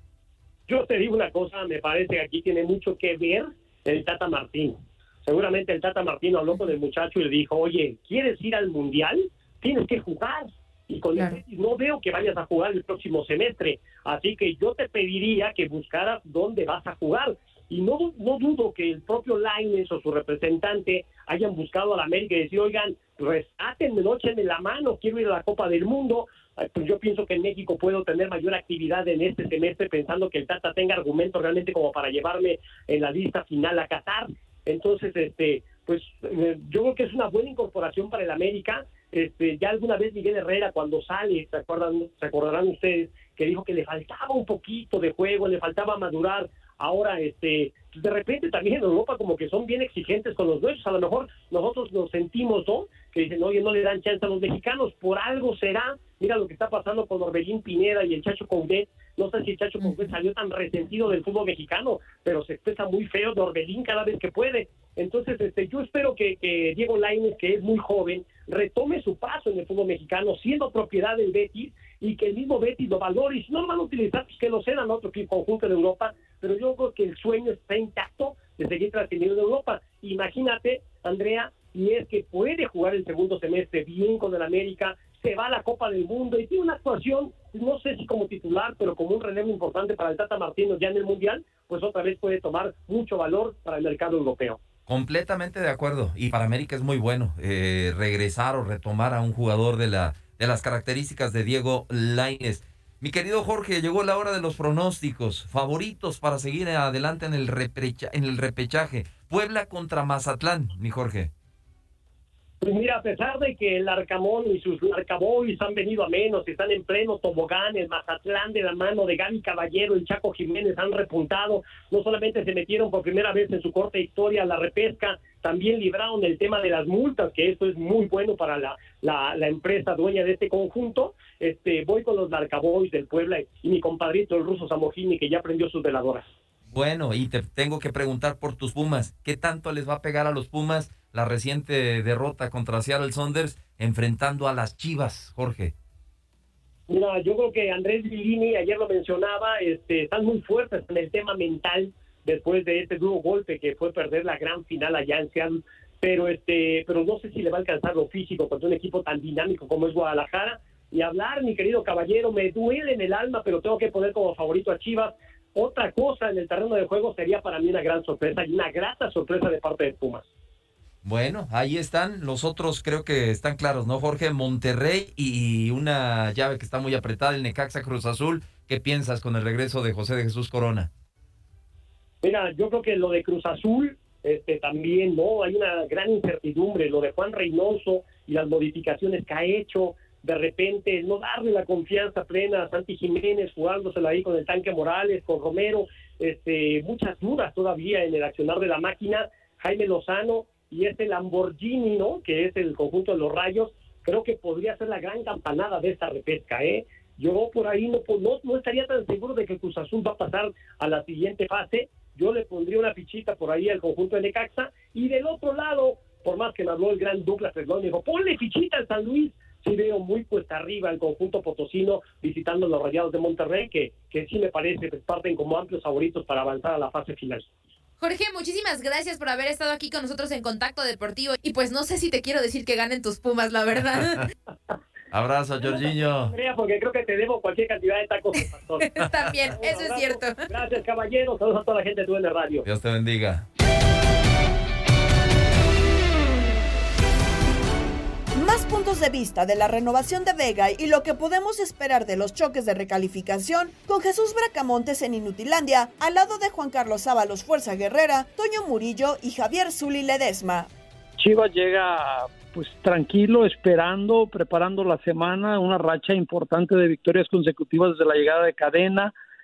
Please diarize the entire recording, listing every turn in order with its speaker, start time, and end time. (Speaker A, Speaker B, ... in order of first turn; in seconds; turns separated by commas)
Speaker A: 0.7-94.6, Speaker B: 94.9-111.3, Speaker A: 112.6-136.3, Speaker B: 136.7-145.7, Speaker A: 146.9-170.2, Speaker B: 171.0-180.9, Speaker A: 182.2-227.5, Speaker C: 228.0-234.2, Speaker B: 235.1-236.3, Speaker A: 235.6-238.9, Speaker C: 238.8-240.5, Speaker A: 239.5-242.7, Speaker B: 242.7-243.4, Speaker D: 248.3-260.7, Speaker E: 261.2-269.1